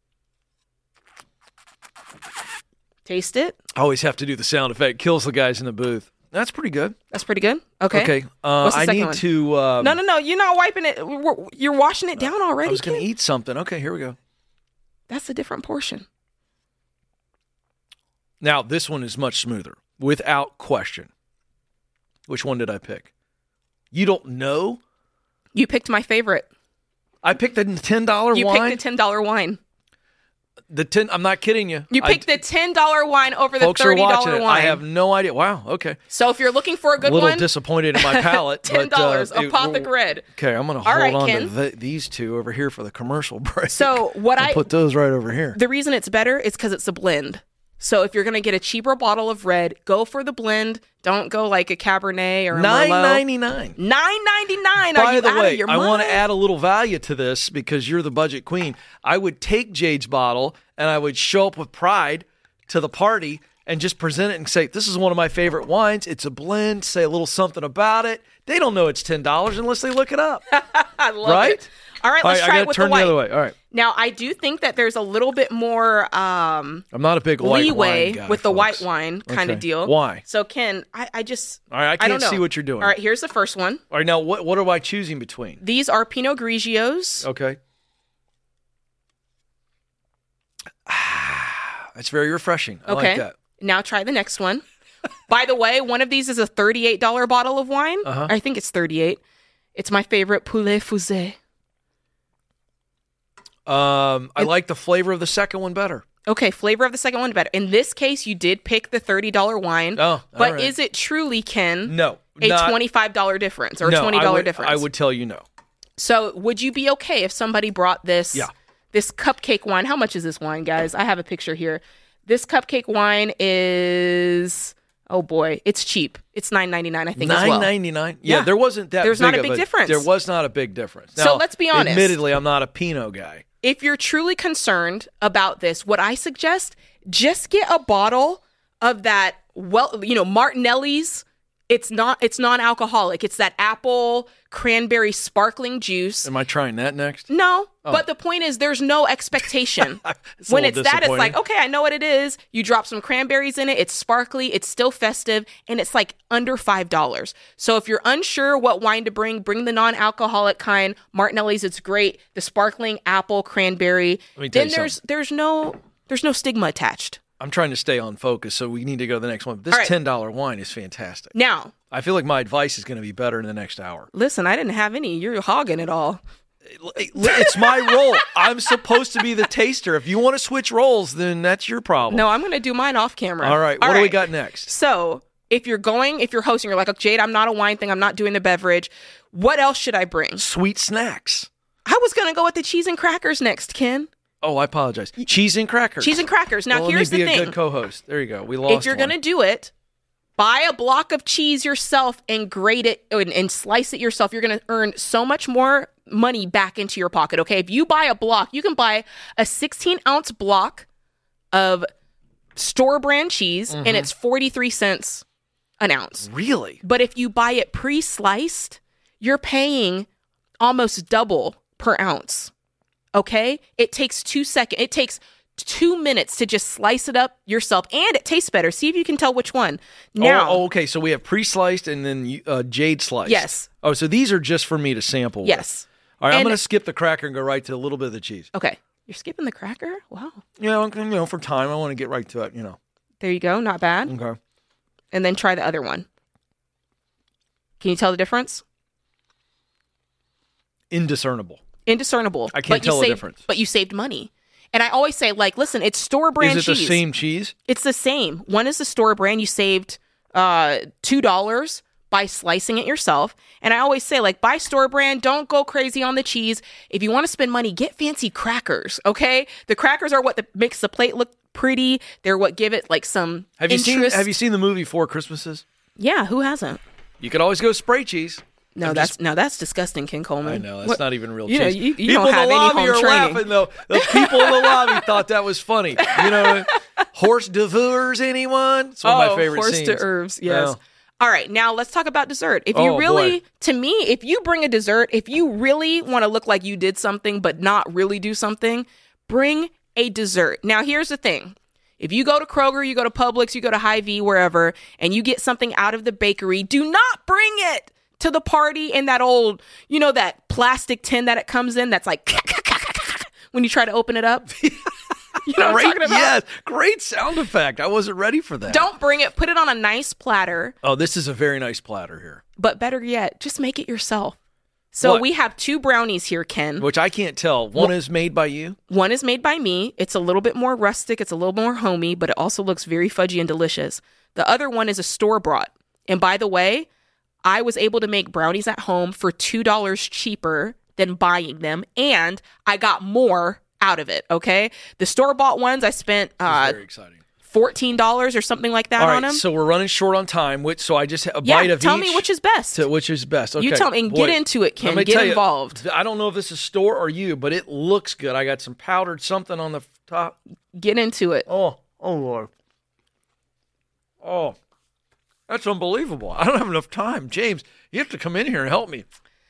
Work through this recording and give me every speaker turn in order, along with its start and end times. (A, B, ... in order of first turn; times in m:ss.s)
0:03.0-0:03.6 A
0:03.7-0:06.9 B
0:07.1-0:09.2 A
0:07.9-0:10.0 B
0:09.8-0:13.1 A
0:12.2-0:14.2 B
0:15.1-0:16.0 A
0:18.4-0:21.1 B
0:22.3-0:23.1 B
0:23.9-0:24.8 B
0:25.5-0:26.5 A
0:27.2-0:28.8 B
0:28.3-0:29.6 A
0:30.7-0:32.2 B
0:31.9-0:34.8 A
0:33.6-0:36.0 B
0:36.1-0:40.2 A
0:37.0-0:45.6 B
0:40.8-0:41.5 A
0:43.7-0:44.7 A
0:45.5-0:53.2 A
0:52.5-0:53.8 B
0:53.8-0:56.2 A
0:54.8-1:10.4 B
1:10.5-1:13.2 A
1:11.2-1:11.6 B
1:12.2-1:13.5 B
1:13.7-1:16.8 A
1:16.9-1:20.2 B
1:17.4-1:23.8 A
1:21.7-1:22.9 B
1:23.9-1:25.6 B
1:25.6-1:27.2 A
1:27.2-1:27.6 B
1:30.8-1:33.3 B
1:32.9-1:34.6 A
1:35.3-1:39.2 A
1:38.0-1:38.3 B
1:39.7-1:41.4 A
1:43.6-1:46.0 B
1:46.2-1:54.8 A
1:50.0-1:50.7 B
1:51.9-1:52.8 B
1:53.8-1:55.4 B
1:56.0-2:07.7 A
2:07.2-2:13.4 B
2:08.2-2:10.1 A
2:11.2-2:12.2 A
2:13.6-2:26.3 A
2:26.2-2:27.3 B
2:27.3-2:47.2 A
2:29.8-2:31.4 B
2:44.4-2:44.9 B
2:47.4-2:51.3 B
2:51.3-2:51.7 A
2:51.9-2:54.1 B
2:54.1-2:56.2 A
2:56.7-3:02.2 B
2:57.2-2:58.2 A
3:02.1-3:10.4 A
3:03.4-3:04.7 B
3:10.4-3:11.5 B
3:11.8-3:14.1 A
3:14.4-3:19.1 B
3:16.0-3:17.5 A
3:18.7-3:19.7 A
3:20.4-3:30.8 A
3:31.5-3:31.9 A
3:32.6-3:35.2 A
3:33.7-3:34.1 B
3:35.8-3:36.3 A
3:36.2-3:36.8 B
3:36.8-3:40.1 A
3:40.6-3:42.5 A
3:43.1-3:50.6 A
3:50.2-3:55.6 B
3:53.2-3:53.7 A
3:55.4-3:56.6 A
3:56.2-3:58.5 B
3:58.5-4:00.4 A
4:00.6-4:02.8 B
4:03.2-4:04.1 A
4:04.1-4:04.4 B
4:05.1-4:06.1 A
4:07.8-4:08.6 A
4:10.9-4:11.6 B
4:11.8-4:17.0 A
4:12.5-4:13.4 B
4:16.4-4:17.5 B
4:17.6-4:34.3 A
4:33.6-4:35.6 B
4:36.0-4:36.8 A
4:37.2-4:39.1 B
4:38.7-4:45.1 A
4:40.4-4:50.8 B
4:46.0-4:46.8 A
4:49.0-5:14.7 A
4:52.7-4:53.4 B
5:15.4-5:16.3 A
5:15.6-5:18.9 B
5:18.7-5:20.7 A
5:20.8-5:22.4 B
5:22.6-5:24.4 A
5:24.9-5:26.8 A
5:26.8-5:28.8 B
5:28.9-5:36.9 A
5:37.4-5:46.8 A
5:46.4-5:47.2 B
5:47.4-5:49.4 A
5:49.0-6:00.4 B
5:51.4-5:52.8 A
5:53.6-5:55.8 A
6:00.7-6:01.5 A
6:01.5-6:02.5 B
6:04.2-6:04.6 B
6:05.5-6:09.0 B